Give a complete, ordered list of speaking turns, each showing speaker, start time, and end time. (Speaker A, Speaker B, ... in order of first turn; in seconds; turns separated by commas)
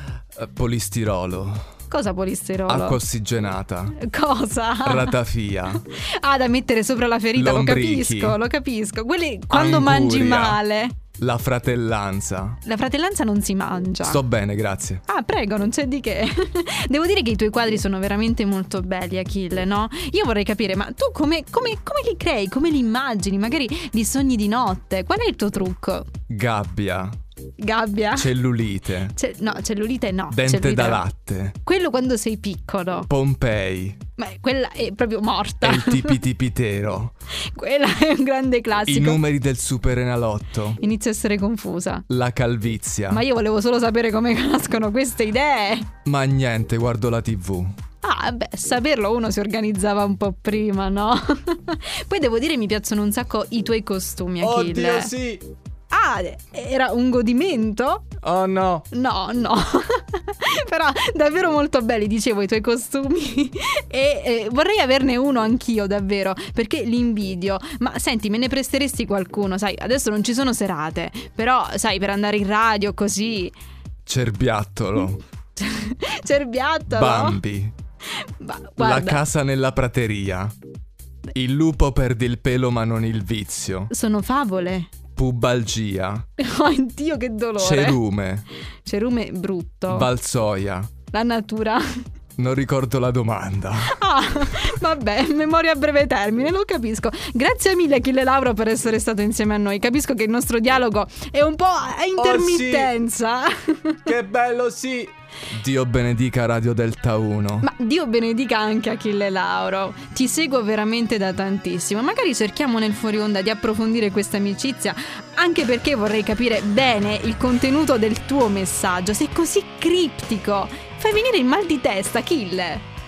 Speaker A: 0.3-1.6, Speaker B: 1.9-3.0, Speaker A: 2.7-4.0, Speaker B: 4.0-5.2, Speaker A: 4.8-5.8, Speaker B: 5.8-11.0, Speaker A: 7.3-8.4, Speaker A: 9.5-10.6, Speaker A: 11.2-12.6, Speaker B: 12.6-14.2, Speaker A: 14.0-15.0, Speaker B: 15.1-26.1, Speaker A: 26.3-27.1, Speaker B: 27.6-28.3, Speaker A: 28.1-29.1, Speaker B: 29.1-31.0, Speaker A: 30.3-31.6, Speaker B: 31.6-33.1, Speaker A: 33.1-34.0, Speaker B: 34.2-36.2, Speaker A: 35.6-37.1, Speaker B: 37.4-39.2, Speaker A: 38.9-40.8, Speaker B: 40.8-42.0, Speaker A: 42.1-43.2, Speaker B: 43.1-45.9, Speaker A: 46.0-47.7, Speaker B: 48.0-55.1, Speaker A: 54.4-55.5, Speaker B: 55.9-58.1, Speaker A: 58.2-58.9, Speaker B: 58.9-73.5, Speaker A: 74.0-75.2, Speaker B: 75.5-77.4, Speaker A: 76.9-77.7, Speaker B: 78.2-79.2, Speaker A: 78.8-80.5, Speaker A: 81.3-83.9, Speaker B: 83.9-84.9, Speaker A: 85.2-86.2, Speaker B: 86.4-88.0, Speaker A: 87.6-88.5, Speaker B: 88.8-90.1, Speaker A: 89.9-90.9, Speaker B: 91.1-91.8, Speaker A: 92.4-94.0, Speaker B: 93.8-104.1, Speaker A: 102.2-102.9, Speaker A: 104.1-107.7, Speaker B: 107.6-122.8